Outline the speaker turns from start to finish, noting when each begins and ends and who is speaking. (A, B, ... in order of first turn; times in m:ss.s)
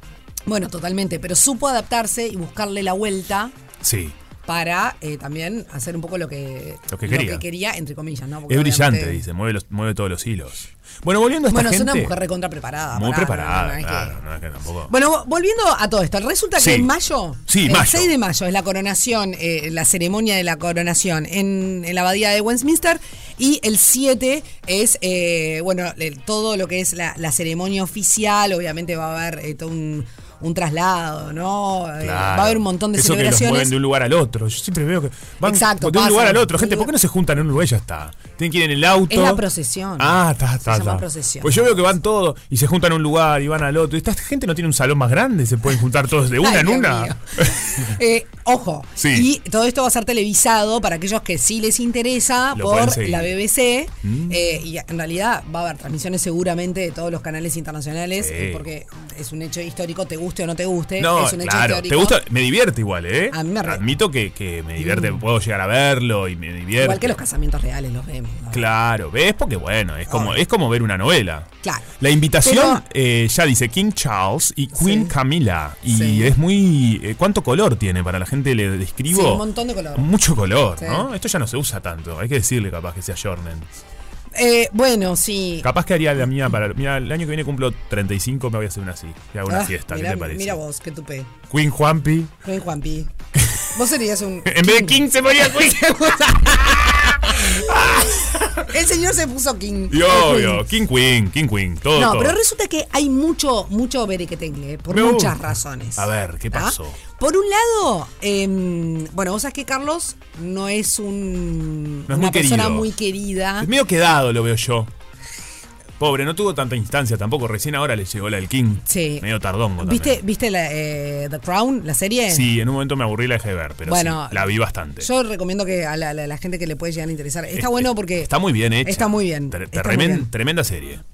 0:00.5-0:03.5 A
0:03.8-0:04.2 B
0:04.5-0:09.2 A
0:06.9-0:07.4 B
0:08.5-0:12.2 B
0:11.5-0:14.2 A
0:12.9-0:14.9 B
0:14.9-0:33.7 A
0:16.6-0:16.9 B
0:17.5-0:18.1 B
0:32.0-0:39.4 B
0:35.4-0:36.9 A
0:39.1-0:41.8 A
0:40.0-0:47.9 B
0:46.4-1:02.2 A
0:49.0-0:49.3 B
0:52.5-0:53.4 B
0:54.0-0:54.5 B
0:58.2-0:58.7 B
1:01.0-1:07.2 B
1:03.3-1:03.8 A
1:04.8-1:05.2 A
1:06.8-1:08.7 A
1:08.5-1:23.7 B
1:10.1-1:10.4 A
1:12.4-1:12.8 A
1:14.7-1:15.1 A
1:15.9-1:16.3 A
1:19.1-1:20.1 A
1:20.8-1:21.1 A
1:24.3-1:25.7 A
1:25.6-1:30.6 B
1:29.5-1:31.3 A
1:31.5-1:32.3 B
1:32.4-1:40.6 A
1:33.4-1:33.7 B
1:34.4-1:38.7 B
1:39.9-1:42.4 B
1:42.0-1:53.7 A
1:44.9-1:47.0 B
1:52.1-1:52.9 B
1:53.6-1:54.9 B
1:56.0-2:00.2 B
1:58.9-1:59.3 A
1:59.8-2:02.5 A
2:02.3-2:05.1 B
2:03.9-2:10.3 A
2:07.5-2:11.0 B